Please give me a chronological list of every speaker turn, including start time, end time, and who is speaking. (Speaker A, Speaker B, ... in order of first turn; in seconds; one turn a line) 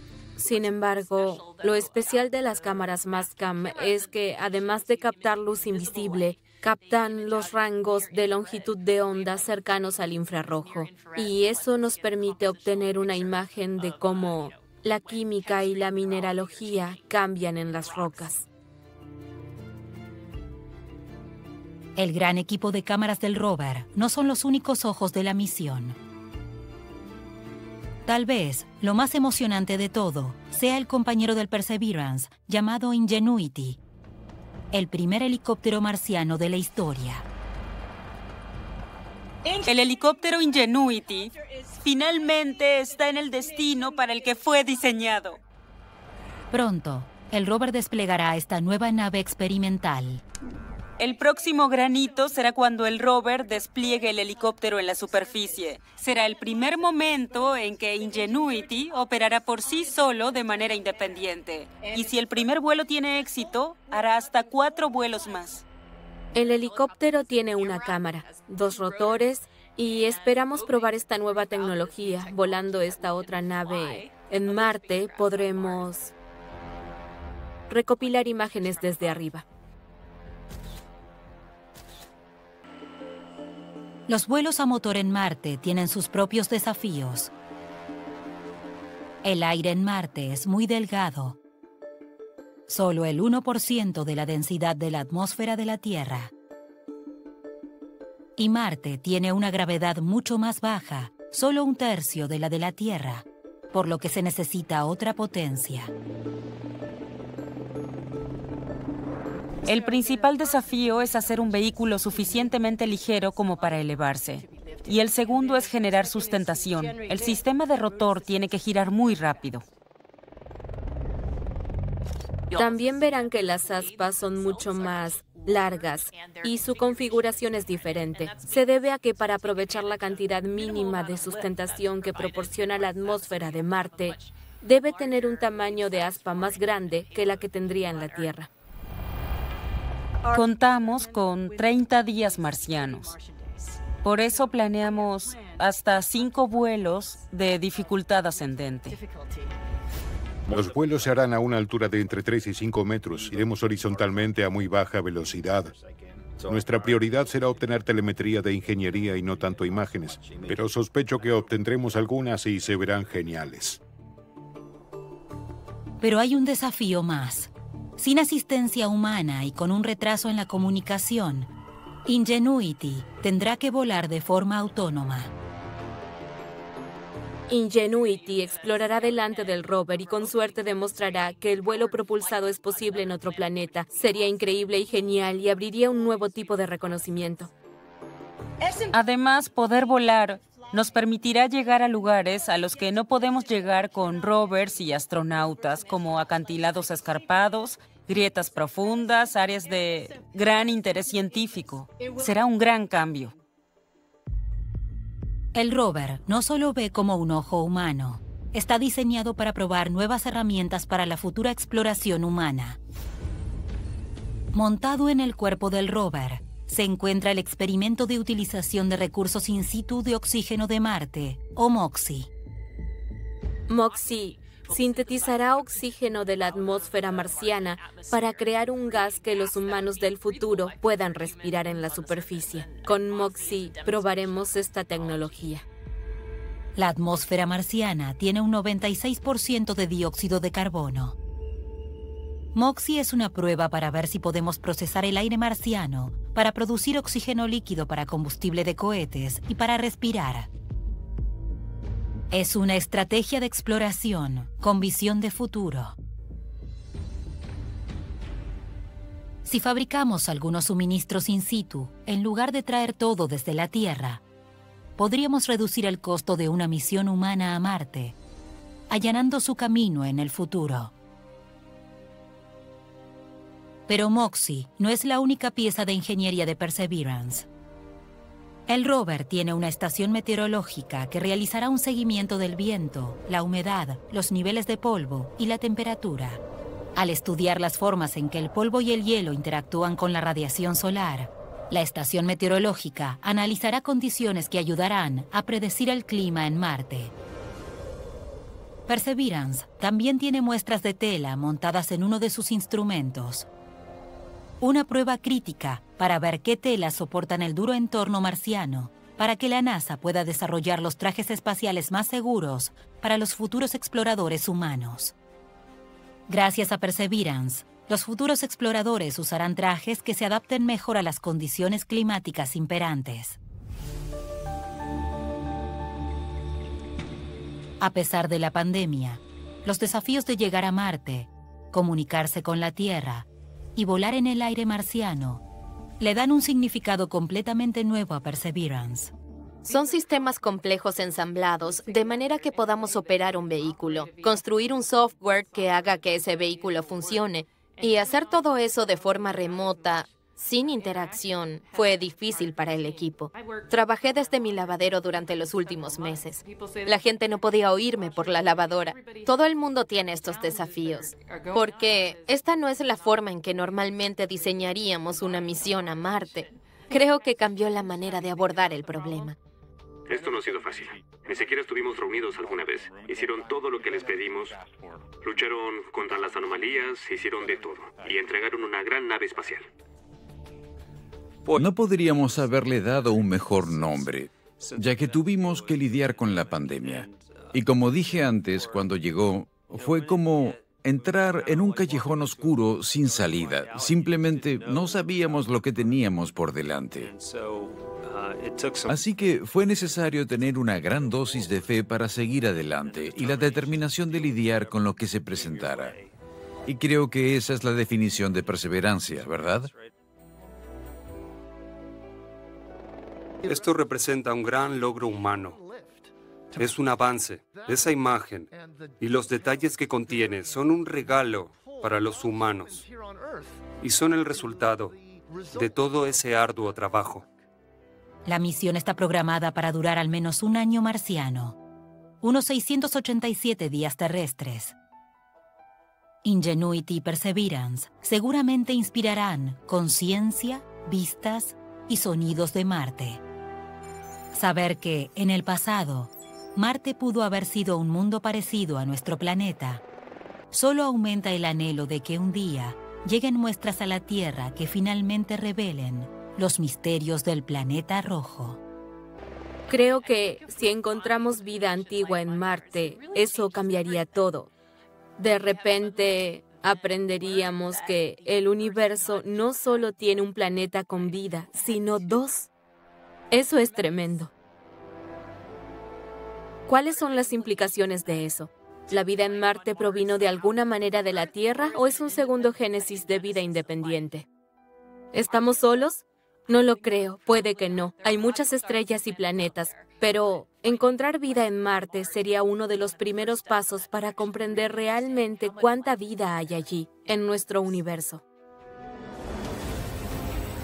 Speaker A: 0.4-18.5
Speaker B: 22.0-26.0
Speaker B: 28.1-33.8
Speaker B: 34.7-37.2
Speaker C: 39.6-45.4
Speaker B: 46.5-50.2
Speaker C: 51.0-65.6
Speaker A: 66.3-76.1
Speaker A: 77.7-79.5
Speaker B: 84.1-87.3
Speaker B: 89.2-91.4
Speaker B: 92.7-96.3
Speaker B: 98.4-105.9
Speaker C: 109.7-119.6
Speaker A: 122.5-138.5
Speaker C: 140.3-143.2
Speaker C: 144.0-149.0
Speaker D: 150.5-155.7
Speaker D: 156.4-163.8
Speaker B: 166.0-171.5
Speaker B: 172.1-175.3
Speaker A: 177.5-187.5
Speaker C: 188.9-203.3
Speaker B: 205.5-212.8
Speaker B: 214.5-222.3
Speaker A: 223.7-235.7
Speaker B: 236.8-241.2
Speaker B: 242.5-250.5
Speaker B: 252.3-256.0
Speaker B: 259.4-264.2
Speaker B: 265.0-268.2
Speaker B: 268.9-270.9
Speaker B: 273.9-277.5
Speaker B: 278.7-286.4
Speaker B: 287.0-297.1
Speaker B: 298.9-303.5
Speaker B: 304.6-315.1
Speaker B: 316.3-323.4
Speaker B: 327.8-335.4
Speaker B: 336.0-339.1
Speaker E: 339.6-369.4
Speaker F: 370.1-374.6
Speaker F: 375.2-379.7
Speaker G: 381.6-397.1
Speaker G: 398.9-406.0
Speaker G: 406.7-409.7
Speaker H: 413.5-415.6
Speaker H: 416.6-422.9
Speaker H: 423.8-425.0
Speaker H: 425.5-427.3
Speaker B: 428.3-431.6
Speaker B: 432.2-434.8
Speaker B: 436.2-443.2
Speaker B: 444.3-449.8
Speaker B: 450.5-458.6
Speaker A: 459.7-464.5
Speaker A: 465.2-472.5
Speaker A: 473.3-474.3
Speaker A: 476.7-484.3
Speaker A: 485.1-498.2